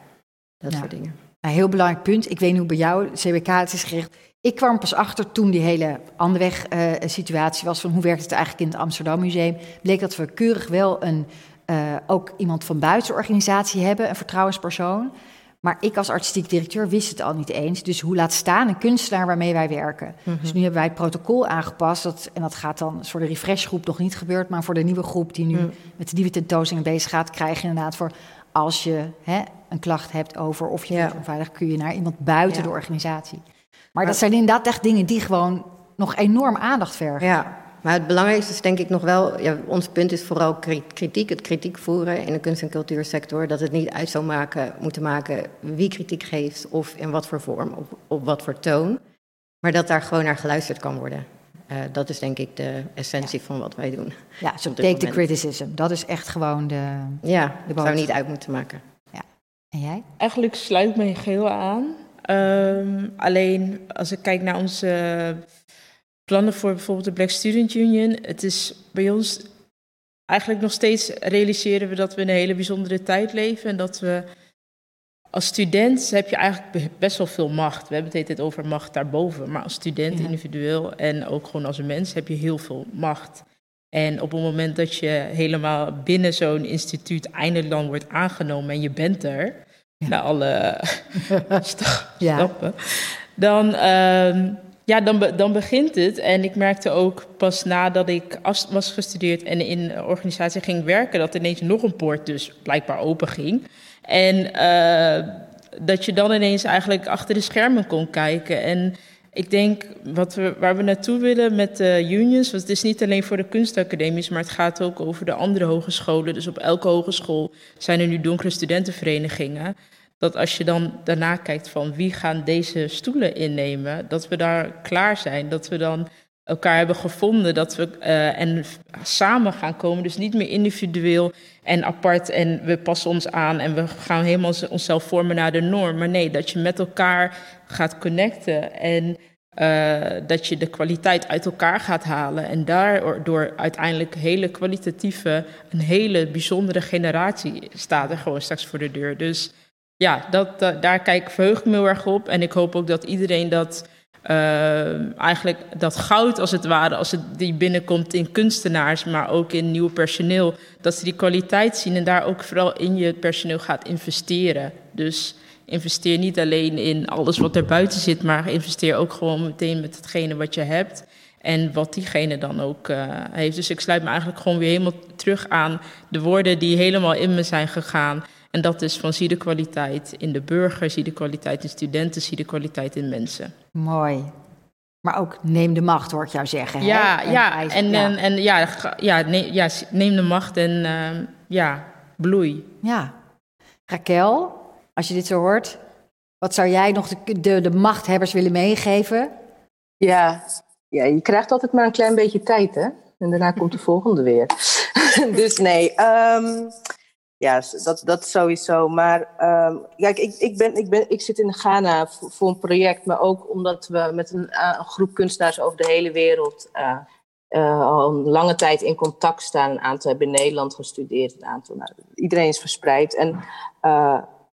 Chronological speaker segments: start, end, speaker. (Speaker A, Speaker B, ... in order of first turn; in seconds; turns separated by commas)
Speaker A: 0.6-1.1, Speaker B: 1.4-33.4, Speaker A: 20.3-20.6, Speaker A: 30.9-31.2, Speaker B: 33.9-37.3, Speaker A: 37.2-49.0, Speaker A: 49.6-55.2, Speaker B: 54.4-58.1, Speaker A: 57.2-58.8, Speaker B: 59.1-60.0, Speaker C: 60.2-65.4, Speaker C: 66.3-69.5, Speaker C: 70.3-74.3, Speaker C: 75.3-183.5, Speaker B: 80.1-80.3, Speaker B: 91.3-91.6, Speaker B: 92.2-92.5, Speaker B: 183.7-184.3, Speaker B: 185.0-188.1, Speaker C: 186.8-192.7, Speaker B: 192.8-193.1, Speaker B: 193.9-195.8, Speaker B: 196.4-199.3, Speaker D: 200.0-206.7, Speaker D: 207.4-224.2